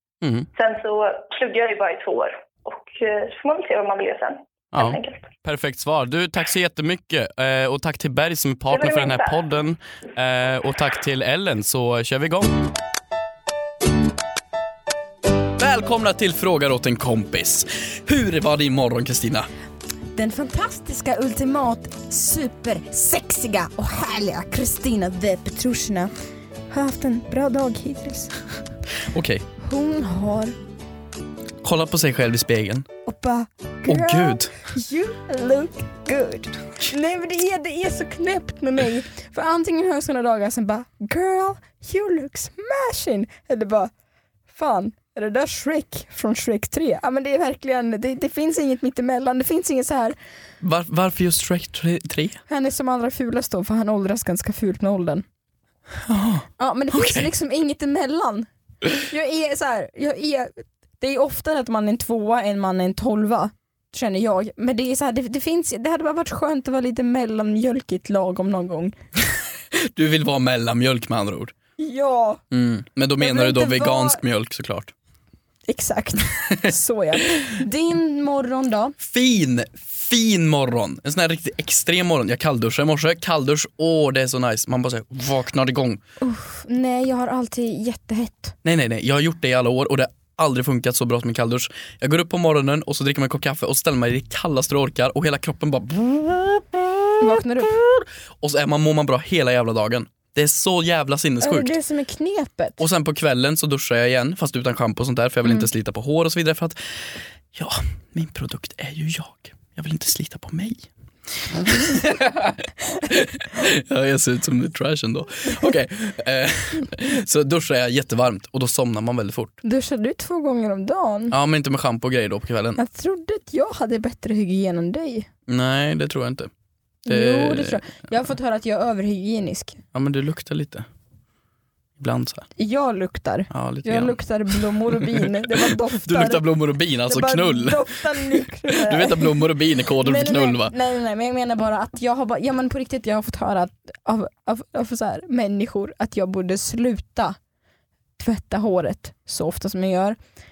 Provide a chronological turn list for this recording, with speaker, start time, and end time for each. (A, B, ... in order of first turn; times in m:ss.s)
0:00.2-0:00.5 A
0:00.6-0:05.2 B
0:04.7-0:12.6 A
0:08.7-0:09.4 B
0:15.6-0:19.5 A
0:20.1-0:26.1 C
0:26.7-0:28.3 C
0:29.0-0:29.4 A
0:29.6-0:30.6 C
0:31.6-0:32.9 A
0:33.0-0:43.9 C
0:33.9-0:34.5 A
0:44.5-0:50.2 C
0:50.6-0:52.4 A
0:52.5-0:55.2 C
0:56.0-0:57.3 A
0:56.6-1:09.0 C
1:09.7-1:11.6 A
1:11.8-1:12.4 C
1:12.5-1:14.9 A
1:13.2-1:14.2 C
1:15.7-1:19.0 C
1:19.0-1:26.0 A
1:26.2-1:28.6 C
1:28.6-1:41.8 A
1:37.2-1:37.7 C
1:41.4-1:42.8 C
1:42.8-1:50.9 A
1:51.4-1:59.6 A
1:59.6-2:01.4 C
2:01.3-2:02.8 A
2:02.8-2:05.3 C
2:05.5-2:06.5 A
2:07.0-2:09.8 C
2:07.1-2:07.8 A
2:09.9-2:10.9 A
2:12.0-2:12.5 A
2:12.6-2:16.4 C
2:13.5-2:14.2 A
2:14.9-2:20.7 A
2:17.1-2:19.4 C
2:20.0-2:27.4 C
2:28.2-2:30.2 C